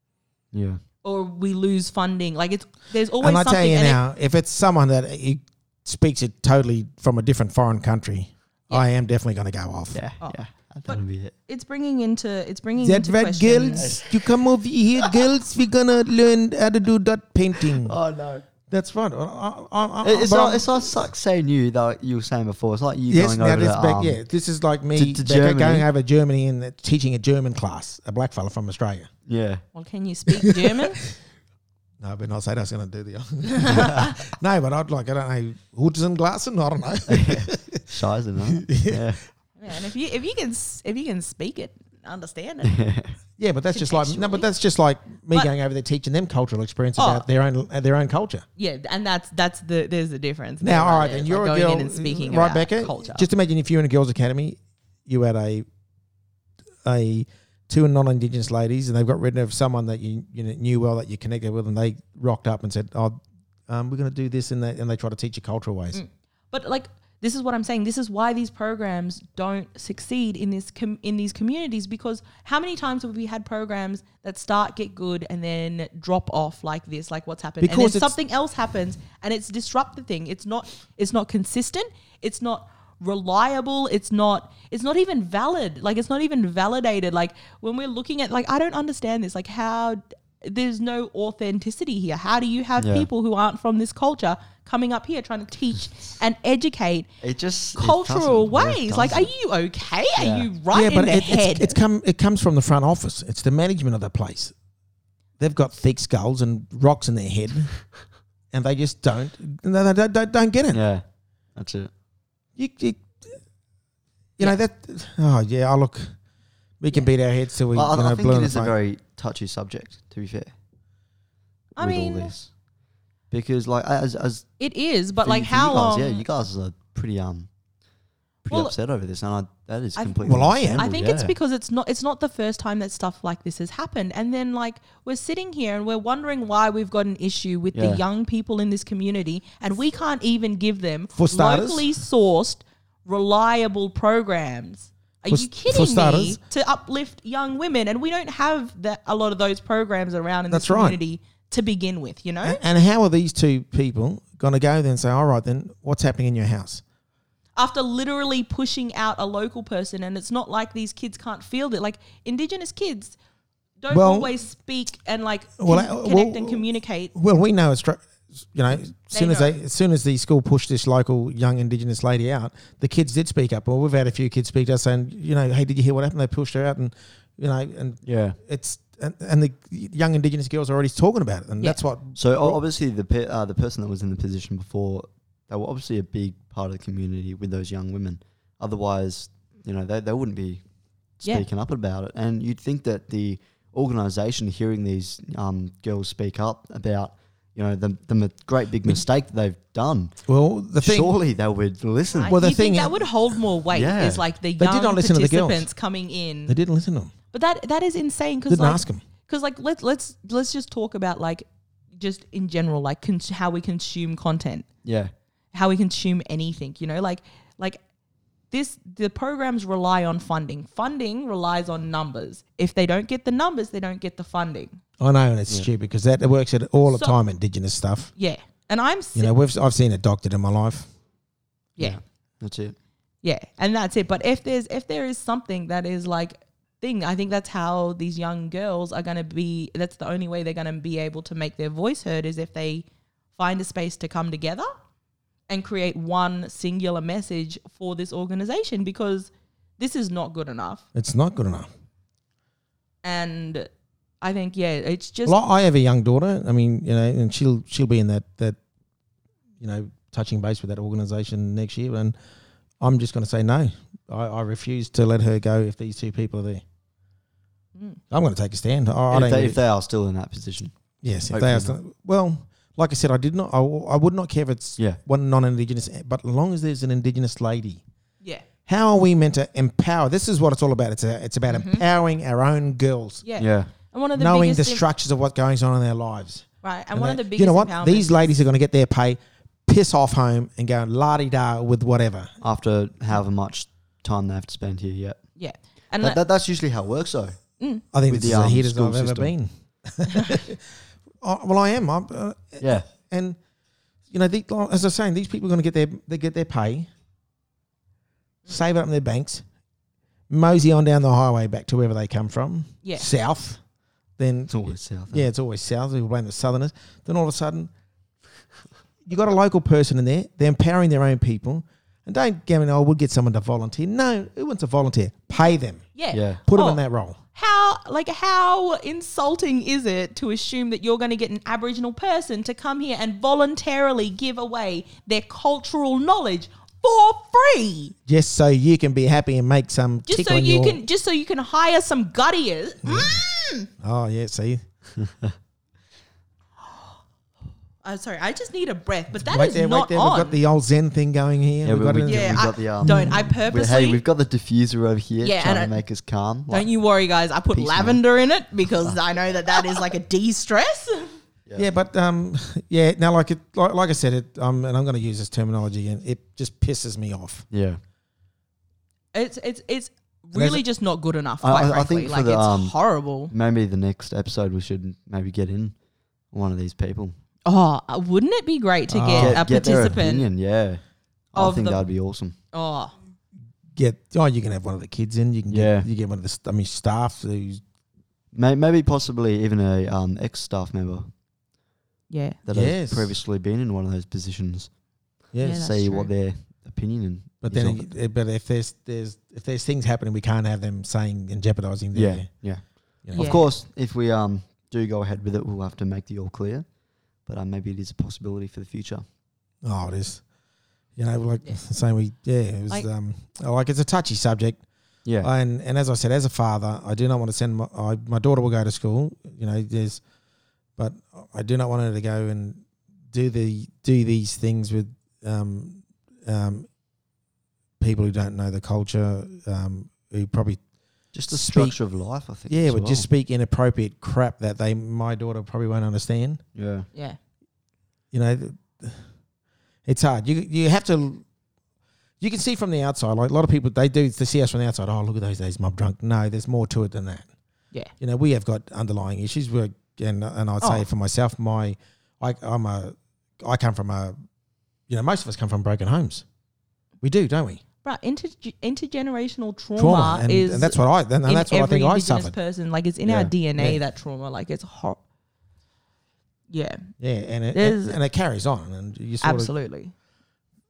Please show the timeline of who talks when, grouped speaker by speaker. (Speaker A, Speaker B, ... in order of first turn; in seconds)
Speaker A: 0.5-0.8, 9.9-11.3, 13.8-14.3, 17.6-18.4, 20.0-24.2, 24.9-25.9, 29.3-29.6, 33.7-34.1, 37.1-39.2, 42.6-43.1, 92.8-93.1, 97.2-99.3, 100.2-100.5, 110.7-111.0, 111.5-111.9, 117.7-120.5, 121.8-122.5, 123.3-124.5, 125.2-127.5, 128.4-131.3, 137.7-138.0, 178.0-178.4, 182.2-190.6, 191.2-200.2, 200.8-202.3, 203.7-204.2, 214.8-215.1, 231.8-232.8, 269.1-270.7, 271.3-271.7, 283.4-283.7, 292.4-295.2, 296.0-297.4, 298.1-299.3, 302.6-302.9, 314.5-315.3, 326.1-326.4, 345.0-345.3, 351.6-356.7, 357.5-358.0, 367.5-367.8, 371.4-375.7, 376.3-377.1, 379.1-380.8, 381.3-382.4, 385.5-385.9, 388.3-391.1, 392.4-394.7, 395.4-397.9, 401.9-406.7, 407.2-409.0, 431.1-433.1, 436.5-436.9, 463.0-463.3
Speaker B: 1.0-4.0, 10.2-13.9, 29.7-31.0, 33.6-33.9, 39.6-42.8, 43.7-44.5, 47.0-47.2, 48.6-53.3, 65.9-97.1, 97.8-101.8, 121.8-122.3, 124.6-126.2, 130.8-152.6, 157.6-163.2, 163.8-167.1, 169.1-169.5, 202.1-206.6, 207.3-214.7, 215.5-217.8, 218.5-224.8, 226.9-227.2, 228.2-229.3, 233.2-244.7, 245.5-250.8, 253.0-253.7, 254.2-255.3, 281.5-281.8, 283.2-284.8, 286.6-288.3, 295.4-296.2, 297.6-297.8, 325.9-326.8, 327.3-337.9, 340.1-343.7, 347.8-350.4, 352.0-354.0, 355.2-355.8, 356.5-361.1, 369.1-373.3, 377.4-380.2, 381.4-381.9, 382.5-382.9, 392.1-392.4, 395.4-396.1, 403.1-403.5, 450.6-450.9, 457.8-465.0, 466.5-466.9, 467.5-468.0, 469.2-469.9
Speaker C: 3.2-10.0, 12.8-18.0, 18.7-20.9, 23.1-29.1, 30.4-30.8, 32.0-37.9, 38.5-39.1, 43.4-48.4, 50.6-55.6, 56.8-66.0, 77.6-78.1, 100.7-104.5, 105.4-107.8, 108.5-110.8, 112.6-113.4, 114.4-116.2, 116.8-118.7, 130.2-130.9, 141.1-141.9, 145.3-146.4, 150.5-151.0, 152.4-156.8, 163.9-164.3, 165.6-182.6, 200.3-201.1, 202.2-202.9, 204.6-205.7, 206.5-207.1, 208.5-209.0, 225.0-228.1, 229.1-230.9, 250.9-251.7, 255.2-258.6, 259.6-262.1, 262.8-266.6, 268.1-269.6, 271.0-277.8, 278.7-283.2, 284.1-292.3, 297.9-300.6, 301.2-303.4, 304.1-306.9, 308.5-309.4, 310.3-313.6, 314.2-317.7, 319.0-325.9, 326.4-327.2, 338.1-340.8, 342.8-343.2, 343.8-344.6, 349.1-353.4, 361.6-367.4, 370.3-370.6, 378.9-379.4, 383.8-387.6, 392.5-393.2, 395.3-395.6, 397.4-402.3, 403.0-403.4, 409.6-410.2, 410.9-414.6, 415.2-420.0, 420.8-426.7, 427.8-430.6, 431.3-431.8, 432.5-436.4, 438.1-439.0, 439.9-441.2, 442.2-447.3, 448.0-454.1, 454.9-456.2, 457.0-457.6, 459.8-462.3, 467.0-469.5